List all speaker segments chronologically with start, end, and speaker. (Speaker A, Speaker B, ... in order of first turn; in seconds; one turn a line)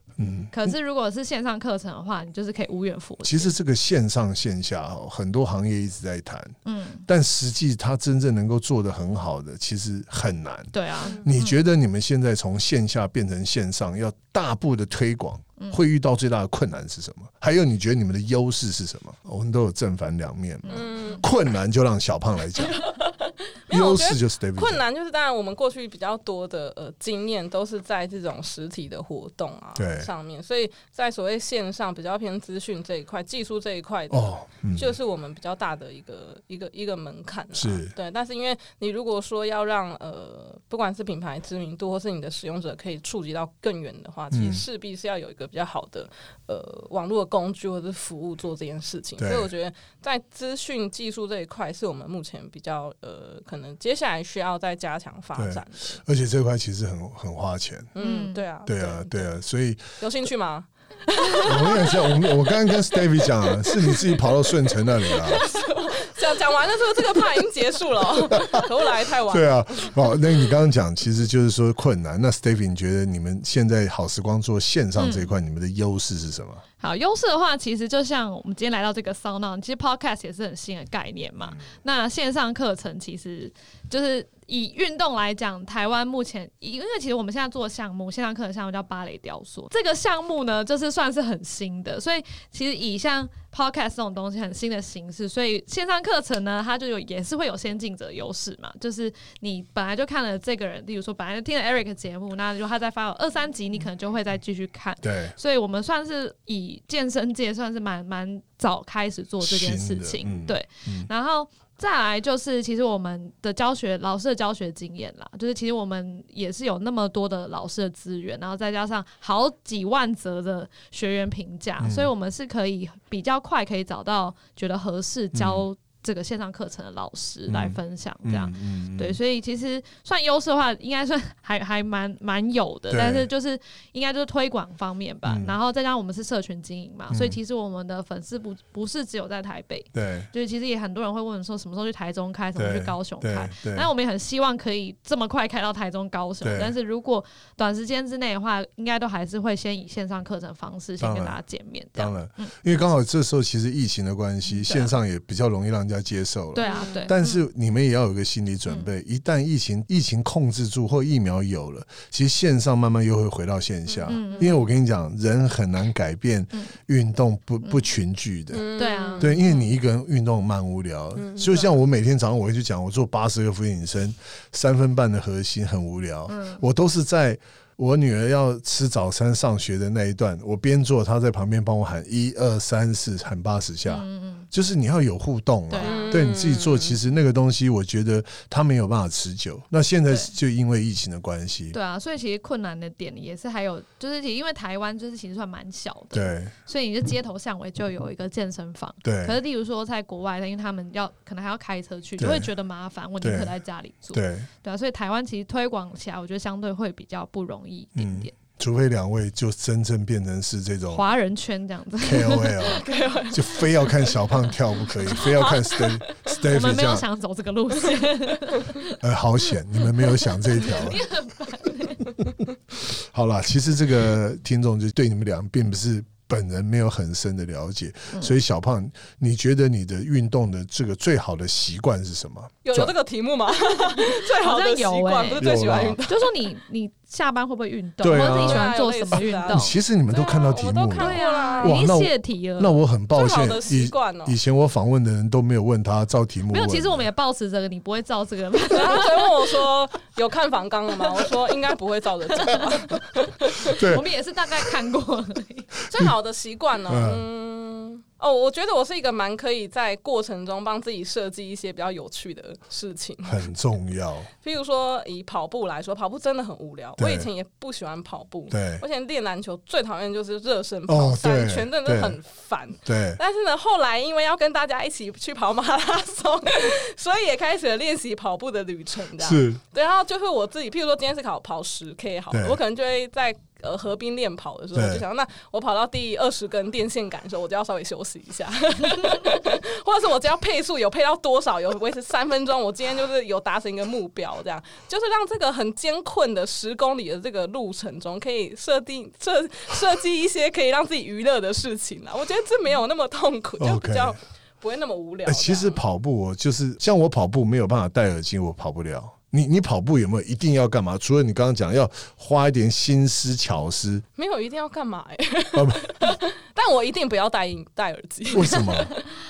Speaker A: 0.2-0.7
Speaker B: 0.5-3.5
Speaker A: 3.2-22.8
Speaker B: 6.7-7.1
Speaker B: 10.7-11.6
Speaker C: 11.0-11.3
Speaker B: 20.7-21.2
Speaker C: 20.7-21.2
Speaker C: 22.6-56.0
Speaker A: 23.7-24.8
Speaker A: 29.8-30.1
Speaker A: 34.1-35.0
Speaker A: 37.5-37.9
Speaker A: 44.3-44.6
Speaker A: 49.2-49.5
Speaker A: 55.4-57.9
Speaker C: 58.0-59.1
Speaker B: 58.0-58.4
Speaker A: 58.7-60.0
Speaker C: 60.0-70.2
Speaker A: 61.4-65.5
Speaker A: 68.3-68.7
Speaker A: 69.3-76.6
Speaker B: 75.0-75.3
Speaker B: 76.8-152.5
Speaker A: 105.0-105.4
Speaker A: 109.4-111.1
Speaker A: 121.8-122.1
Speaker A: 125.3-125.6
Speaker A: 127.5-129.2
Speaker A: 132.9-133.3
Speaker A: 135.2-135.6
Speaker A: 137.1-137.4
Speaker A: 139.9-140.3
Speaker A: 142.6-143.9
Speaker A: 146.4-146.7
Speaker A: 151.0-151.4
Speaker A: 152.0-191.8
Speaker B: 154.5-155.0
Speaker B: 156.6-157.3
Speaker C: 156.6-157.2
Speaker C: 163.9-164.5
Speaker B: 164.1-164.6
Speaker C: 168.5-169.7
Speaker B: 168.8-169.3
Speaker C: 171.2-171.7
Speaker B: 176.3-176.6
Speaker B: 183.9-184.5
Speaker B: 185.7-186.2
Speaker C: 185.8-187.0
Speaker B: 191.7-208.3
Speaker A: 196.1-196.5
Speaker A: 199.0-199.4
Speaker A: 202.2-202.5
Speaker A: 203.2-203.5
Speaker A: 204.1-204.5
Speaker A: 208.0-211.1
Speaker B: 210.9-212.8
Speaker A: 212.0-217.1
Speaker C: 212.7-214.2
Speaker C: 215.1-216.3
Speaker B: 216.4-219.0
Speaker A: 219.0-221.0
Speaker B: 220.1-222.2
Speaker A: 222.9-232.9
Speaker C: 232.7-236.3
Speaker B: 233.8-239.8
Speaker A: 235.4-236.0
Speaker A: 238.0-247.1
Speaker C: 238.1-241.8
Speaker B: 241.0-242.8
Speaker C: 243.1-244.4
Speaker B: 246.5-249.6
Speaker C: 248.7-253.8
Speaker B: 252.3-252.9
Speaker B: 253.6-255.7
Speaker A: 253.7-254.1
Speaker C: 255.9-263.5
Speaker A: 256.9-257.2
Speaker A: 263.2-264.3
Speaker C: 264.4-305.8
Speaker A: 267.0-267.3
Speaker A: 268.5-268.8
Speaker A: 270.9-272.2
Speaker A: 272.9-273.2
Speaker A: 279.2-279.6
Speaker A: 282.3-282.6
Speaker A: 284.7-285.0
Speaker A: 303.6-304.2
Speaker A: 305.2-314.0
Speaker C: 314.2-319.1
Speaker A: 315.5-315.9
Speaker A: 318.3-318.9